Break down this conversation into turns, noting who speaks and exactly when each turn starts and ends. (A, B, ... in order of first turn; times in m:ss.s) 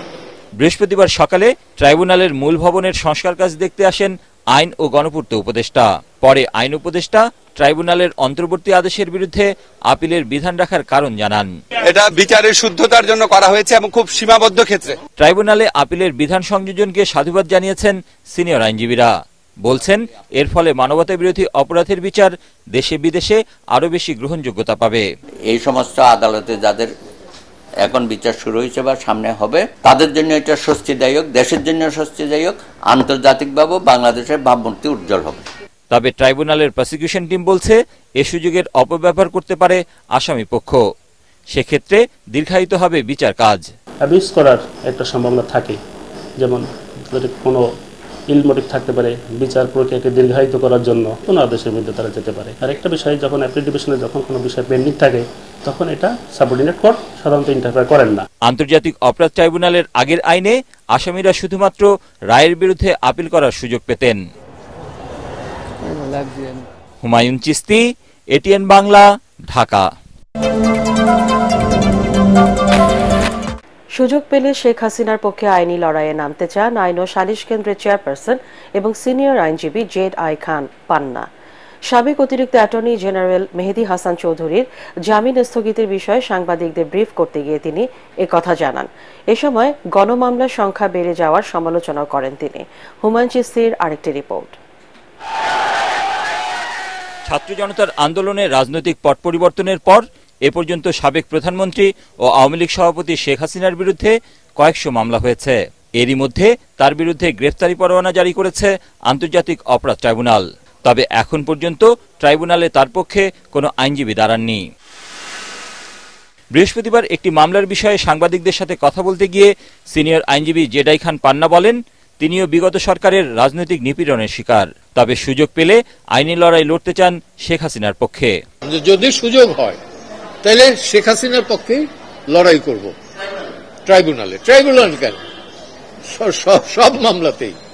0:00.6-0:11.6 A
0:11.8-0:14.9 B
0:15.2-0:19.1 A
0:19.6-0:25.0 A
0:25.5-0:26.9 C
0:27.8-0:35.4 C
0:35.9-0:40.8 A
0:41.5-0:43.6 A
0:44.0-0:45.8 D
0:46.4-0:47.6 D
0:48.3-0:58.2 D
0:58.4-1:04.2 A
1:07.0-1:07.8 A
1:08.3-1:09.8 A
1:13.9-1:21.3 E
1:21.9-1:34.6 E
1:37.3-1:54.6 A
1:56.5-2:08.3 A
2:08.7-2:09.7 F
2:10.4-2:11.7 F
2:12.3-2:12.7 F
2:13.9-2:15.1 F
2:16.2-2:17.5 F